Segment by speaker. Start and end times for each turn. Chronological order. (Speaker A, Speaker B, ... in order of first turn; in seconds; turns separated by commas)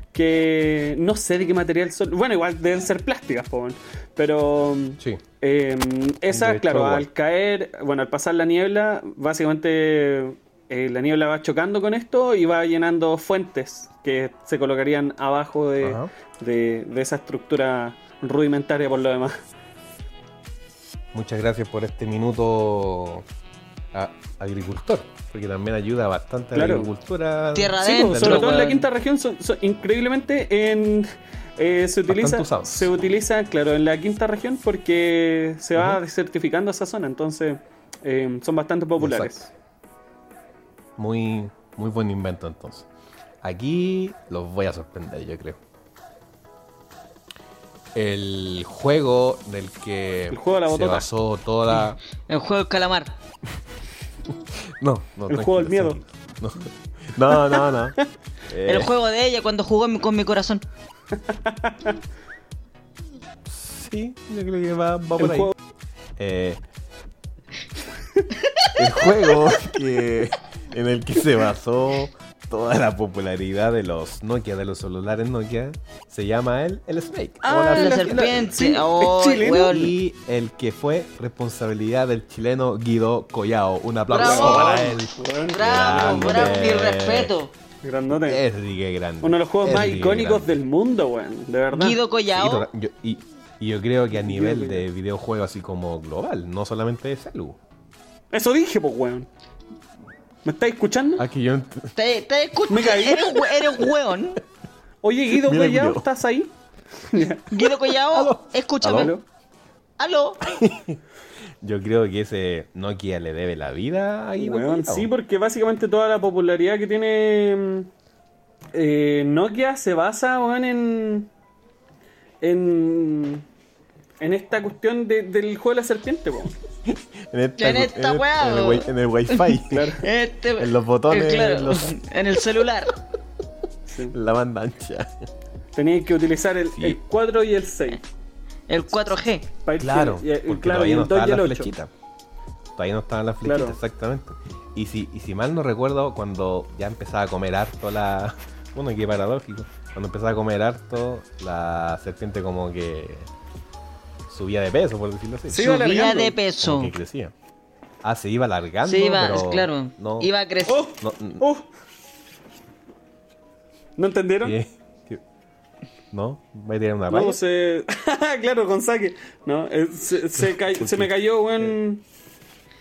Speaker A: 0.1-19.4, Speaker B: 6.3-7.1, Speaker B: 15.8-16.1, Speaker B: 21.1-23.3, Speaker B: 23.9-28.6, Speaker A: 26.6-26.9, Speaker C: 27.6-28.9, Speaker A: 27.8-39.5, Speaker B: 32.1-32.9, Speaker B: 35.8-36.0, Speaker B: 39.0-39.3, Speaker B: 41.0-42.9, Speaker B: 43.4-45.6, Speaker B: 47.9-52.0, Speaker A: 50.3-51.1, Speaker C: 52.3-53.1, Speaker B: 54.8-58.9, Speaker A: 55.3-56.0, Speaker A: 57.4-57.6, Speaker C: 58.6-60.6, Speaker A: 61.4-62.0, Speaker B: 63.5-65.5, Speaker A: 65.2-65.5, Speaker B: 66.2-66.6, Speaker B: 68.8-78.5, Speaker A: 77.4-79.8, Speaker C: 77.7-80.0, Speaker B: 79.6-87.3, Speaker C: 84.1-84.9, Speaker A: 84.1-86.6, Speaker C: 85.5-87.5, Speaker A: 87.8-88.4, Speaker B: 88.2-90.5, Speaker A: 89.2-92.0, Speaker C: 91.7-92.7, Speaker B: 92.3-97.6, Speaker A: 94.2-94.8, Speaker A: 98.3-99.3, Speaker A: 100.5-101.3, Speaker B: 101.2-101.9, Speaker C: 102.0-104.4, Speaker A: 102.7-103.5, Speaker A: 105.0-106.5, Speaker B: 105.3-106.1, Speaker A: 107.1-107.5, Speaker C: 107.5-109.2, Speaker B: 108.1-109.1, Speaker A: 108.8-109.2, Speaker C: 110.0-110.4, Speaker B: 110.5-111.0, Speaker B: 111.6-115.1, Speaker A: 114.4-117.9, Speaker A: 118.7-121.3, Speaker A: 122.4-123.5, Speaker A: 124.2-126.6, Speaker B: 126.9-129.9, Speaker C: 127.6-132.9, Speaker A: 129.7-130.1, Speaker B: 130.6-131.9, Speaker A: 133.9-134.2, Speaker B: 134.1-135.1, Speaker A: 135.8-138.0, Speaker B: 136.7-137.0, Speaker C: 138.7-139.5, Speaker A: 139.7-141.7, Speaker B: 139.8-141.9, Speaker B: 142.8-153.3, Speaker A: 143.4-143.8, Speaker B: 154.3-155.8, Speaker A: 155.5-156.4, Speaker C: 155.6-156.9, Speaker B: 156.6-157.3, Speaker B: 158.0-160.3, Speaker C: 158.8-160.9, Speaker A: 160.7-161.7, Speaker B: 161.0-161.4, Speaker A: 164.0-164.6, Speaker B: 164.4-165.2, Speaker B: 166.1-167.4, Speaker A: 167.1-172.0, Speaker B: 170.4-171.7